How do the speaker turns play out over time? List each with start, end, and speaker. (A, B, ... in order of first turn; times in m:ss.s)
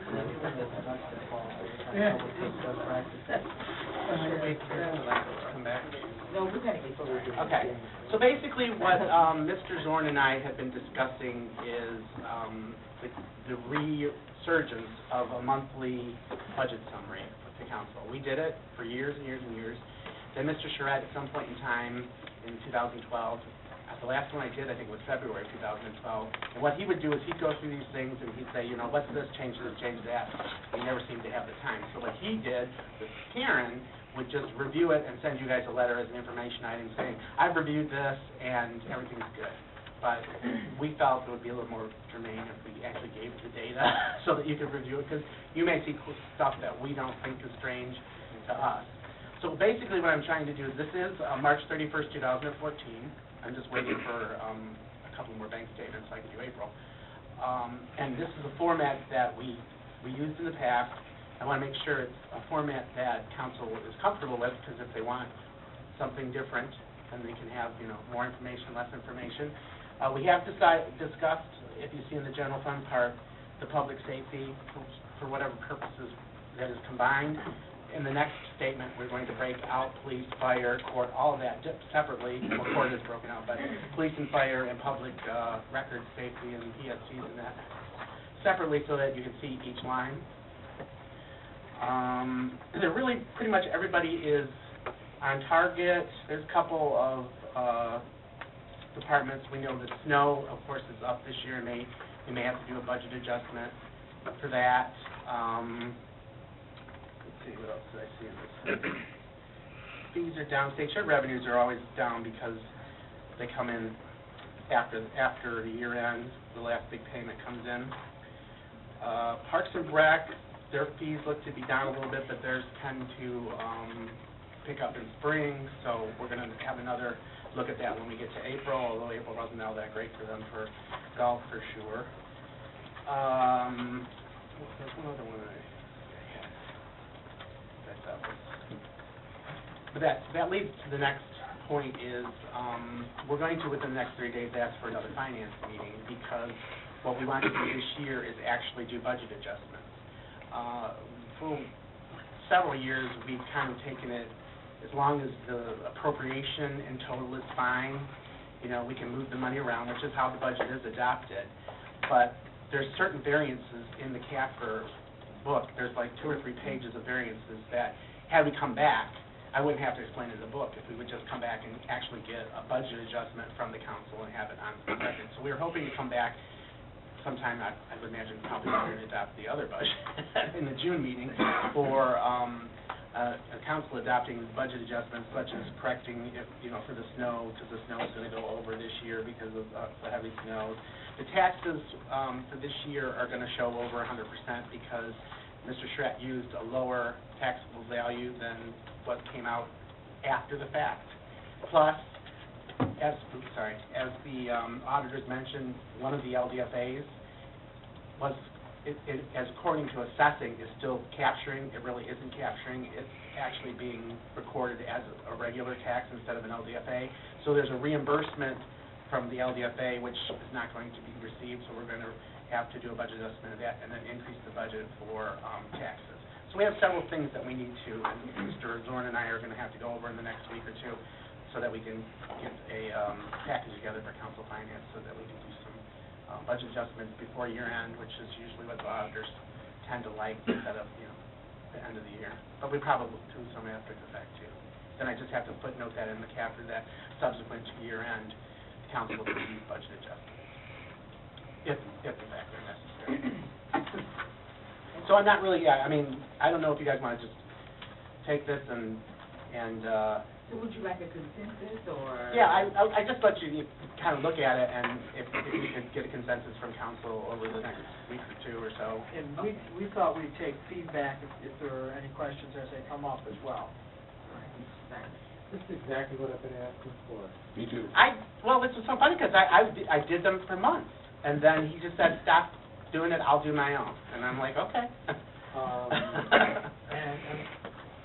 0:01.6-0:02.6 A
0:01.9-0:02.4 B
0:04.1-0:06.0 C
0:06.3-0:07.7 D
0:07.3-0:19.8 C
0:20.3-0:56.7 C
0:57.4-1:05.3 C
1:05.9-1:27.7 C
1:28.3-1:30.2 C
1:31.8-1:34.6 C
1:35.2-1:38.0 C
1:38.9-1:43.8 C
1:44.4-1:46.0 C
1:47.2-1:49.0 C
1:50.1-1:52.6 C
1:53.4-1:54.0 C
1:54.7-1:57.9 C
1:59.0-2:12.1 C
2:13.0-2:16.6 C
2:17.8-2:18.6 C
2:19.9-2:30.0 C
2:30.5-2:31.7 C
2:32.3-2:38.1 C
2:38.6-2:41.5 C
2:42.0-2:44.9 C
2:45.4-2:56.4 C
2:57.2-3:19.7 C
3:20.2-3:22.2 C
3:23.0-3:27.1 C
3:28.2-4:01.2 C
4:01.7-4:10.5 C
4:11.6-4:13.4 C
4:15.0-4:17.4 C
4:18.2-4:20.2 C
4:20.5-4:22.7 D
4:22.3-4:29.1 C
4:29.1-4:33.7 A
4:34.3-4:35.2 D
4:35.5-4:37.4 B
4:37.9-4:45.2 C
4:45.5-4:47.5 B
4:45.9-4:46.6 C